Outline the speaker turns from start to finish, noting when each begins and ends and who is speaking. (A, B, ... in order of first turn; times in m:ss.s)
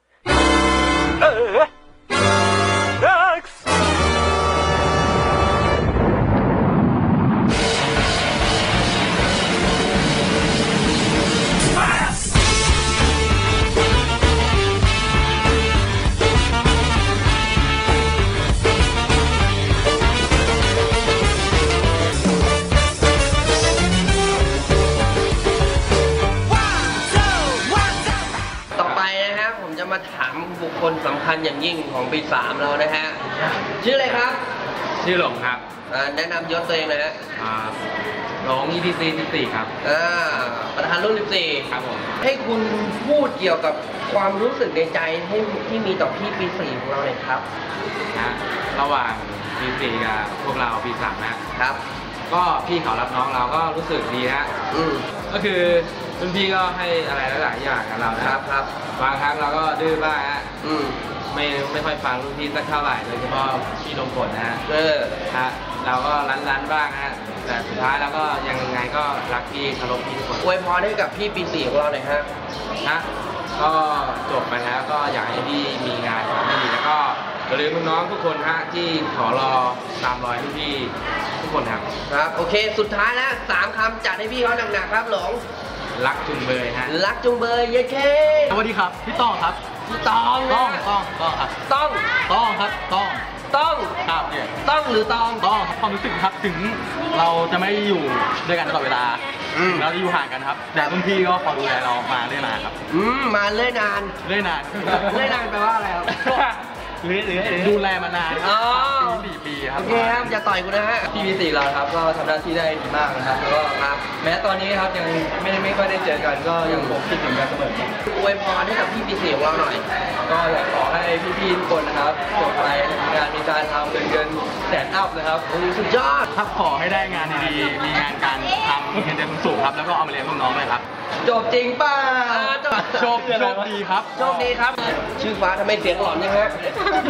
0:28.8-0:33.2 A
0:33.8-0:34.4 A
0:35.0-0:35.6 B
0:35.9-0:37.2 A
0:37.4-0:37.8 B
0:38.4-0:39.7 B
0:39.8-0:47.5 A
0:41.7-0:42.1 B
0:48.1-0:51.4 B
0:51.6-0:51.8 A
0:52.3-0:54.5 B
0:54.7-0:55.1 A
0:55.3-0:58.4 B
0:58.2-0:58.7 A
0:58.9-1:00.5 B
1:00.6-1:01.2 A
1:01.3-1:04.6 B
1:04.7-1:05.2 A
1:05.3-1:10.5 B
1:10.4-1:12.3 A
1:12.8-1:21.9 B
1:22.1-1:25.4 A
1:26.0-1:27.0 B
1:26.8-1:28.6 A
1:28.5-1:29.6 C
1:29.9-1:30.8 A
1:30.4-1:31.5 C
1:31.7-1:32.2 A
1:32.2-1:33.3 C
1:33.5-1:34.0 A
1:34.1-1:34.5 C
1:34.6-1:35.5 A
1:35.4-1:42.8 C
1:39.5-1:39.9 A
1:42.9-1:44.2 A
1:44.2-1:45.3 C
1:44.9-1:46.1 A
1:47.0-1:50.4 C
1:48.4-1:51.1 A
1:51.1-1:57.9 B
1:53.6-1:54.0 A
1:56.6-1:57.0 A
1:58.1-1:59.9 A
2:00.3-2:05.5 B
2:05.5-2:06.3 A
2:06.3-2:10.8 C
2:11.3-2:12.3 B
2:11.4-2:13.2 A
2:12.9-2:14.5 C
2:13.2-2:13.7 B
2:14.2-2:16.6 A